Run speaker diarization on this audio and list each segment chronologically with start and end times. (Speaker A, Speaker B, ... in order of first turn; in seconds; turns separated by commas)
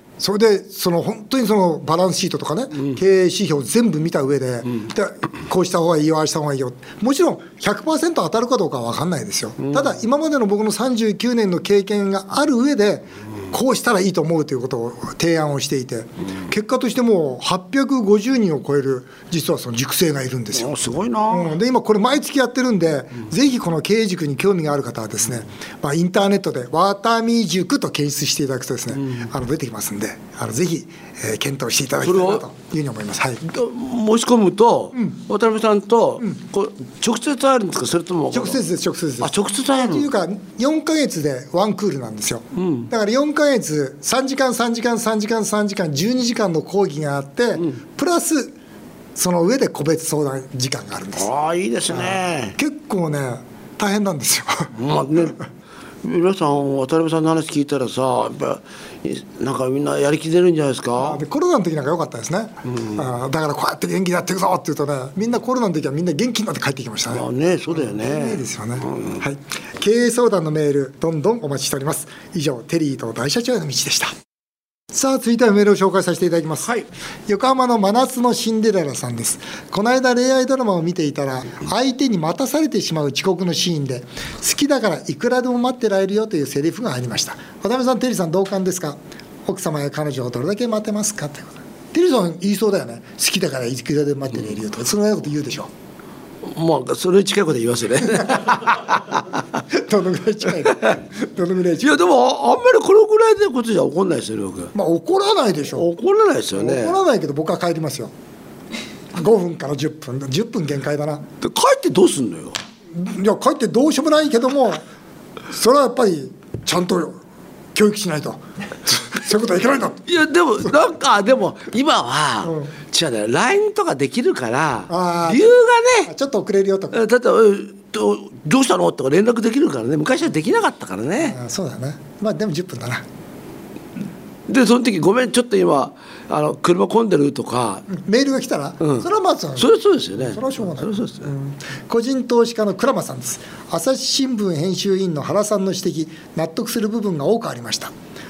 Speaker A: 0.2-33.4, Speaker B: 9.6-9.9, Speaker B: 20.6-21.5, Speaker B: 32.0-32.4, Speaker B: 33.4-38.6, Speaker A: 38.3-48.6, Speaker B: 39.2-40.1, Speaker B: 42.5-42.9, Speaker A: 49.2-51.3, Speaker B: 51.2-52.6, Speaker A: 51.9-54.7, Speaker B: 54.8-55.4, Speaker B: 56.0-61.2, Speaker A: 61.0-74.1, Speaker B: 67.1-69.2, Speaker A: 74.9-76.7, Speaker A: 77.3-95.7, Speaker B: 96.4-99.4, Speaker A: 99.7-102.0, Speaker B: 101.8-104.7, Speaker A: 104.7-105.9, Speaker B: 105.8-107.0, Speaker A: 106.5-108.1, Speaker A: 109.1-111.3, Speaker B: 111.4-112.6, Speaker A: 112.9-114.8, Speaker A: 115.5-117.2, Speaker A: 117.8-120.0, Speaker B: 120.1-126.1, Speaker A: 122.4-122.7, Speaker A: 124.9-127.0, Speaker B: 126.9-131.4, Speaker A: 131.2-133.1, Speaker B: 134.5-137.9, Speaker A: 137.9-147.9, Speaker B: 139.6-141.3